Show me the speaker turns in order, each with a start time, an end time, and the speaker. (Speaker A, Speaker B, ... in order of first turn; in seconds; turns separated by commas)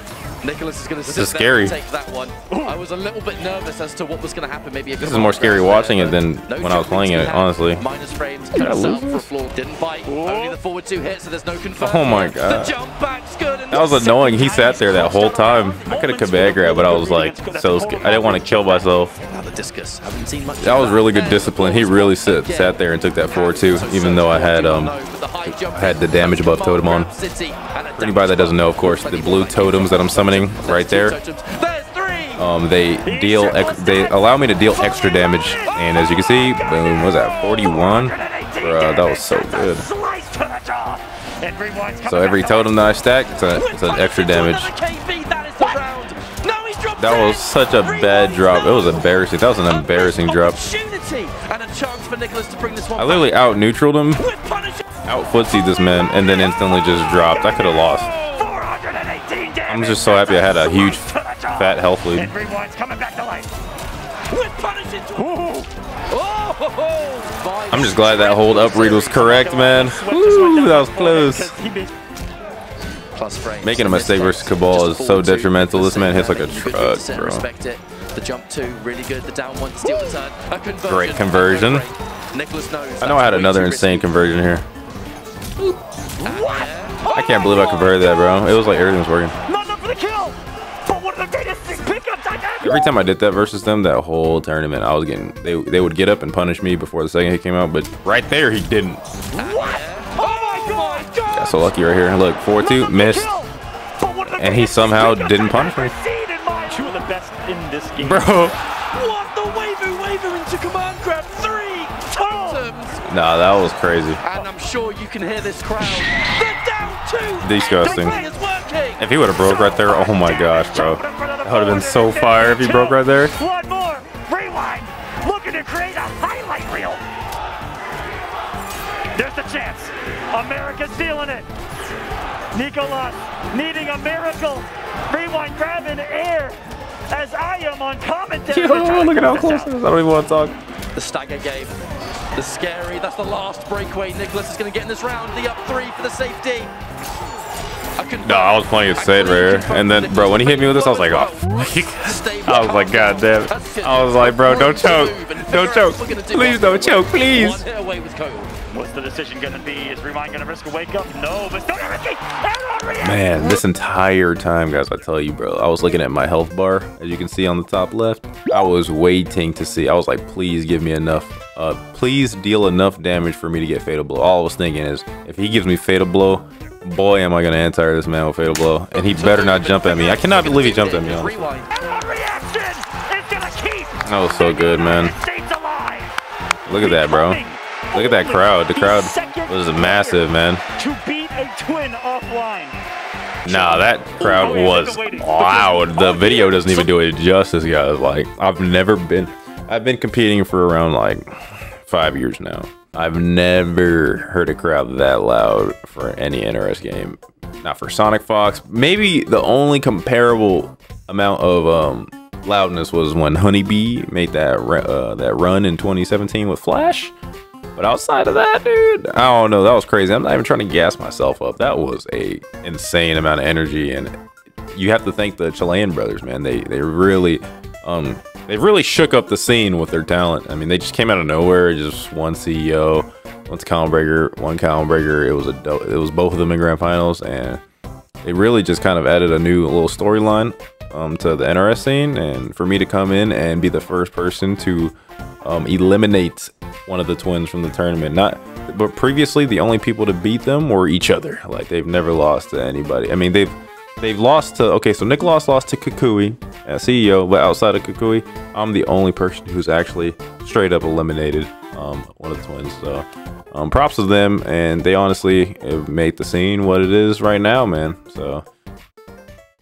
Speaker A: 0.4-14.9, Speaker B: 1.1-1.8, Speaker C: 2.5-2.8, Speaker B: 5.0-7.8, Speaker B: 8.5-9.3, Speaker C: 10.1-10.6, Speaker B: 11.7-12.8, Speaker B: 13.7-19.1, Speaker C: 14.2-19.1, Speaker A: 19.3-32.5, Speaker B: 20.6-27.1, Speaker B: 28.0-31.2, Speaker B: 32.4-39.9, Speaker C: 33.0-42.9, Speaker B: 42.0-44.7, Speaker A: 43.5-53.5, Speaker B: 47.0-50.6, Speaker B: 53.0-54.3, Speaker A: 54.2-54.9, Speaker B: 55.1-58.1, Speaker A: 57.0-58.5, Speaker C: 58.1-63.5, Speaker B: 59.7-62.3, Speaker A: 64.3-65.5, Speaker C: 65.2-65.7, Speaker A: 66.1-70.0, Speaker B: 67.7-71.6, Speaker C: 69.8-71.9, Speaker A: 73.2-84.3, Speaker B: 73.6-77.5, Speaker C: 79.8-80.2, Speaker B: 80.9-81.9, Speaker B: 83.0-84.7, Speaker C: 86.2-88.6, Speaker A: 86.2-87.2, Speaker B: 87.1-89.4, Speaker C: 89.5-93.0, Speaker B: 92.6-99.0, Speaker C: 99.3-101.1, Speaker A: 99.3-101.5, Speaker B: 101.3-103.4, Speaker C: 102.6-108.5, Speaker B: 104.3-105.9, Speaker B: 108.0-108.6, Speaker A: 108.9-113.0, Speaker C: 112.2-112.6, Speaker B: 113.1-114.2, Speaker A: 114.2-119.1, Speaker B: 117.4-118.2, Speaker B: 119.0-123.3, Speaker C: 119.4-127.0, Speaker C: 129.1-131.5, Speaker C: 132.5-139.8, Speaker B: 138.5-140.6, Speaker A: 140.9-141.8, Speaker A: 142.3-146.7, Speaker A: 148.0-158.5, Speaker B: 148.2-157.7, Speaker C: 158.7-163.6, Speaker B: 163.0-181.5, Speaker A: 178.9-181.8, Speaker C: 181.7-186.2, Speaker B: 184.0-185.2, Speaker B: 186.7-187.4, Speaker C: 186.7-192.8, Speaker B: 187.9-190.6, Speaker B: 193.4-217.1, Speaker C: 193.5-196.9, Speaker A: 194.2-196.4, Speaker B: 217.8-224.1, Speaker B: 224.7-237.6, Speaker B: 238.2-268.4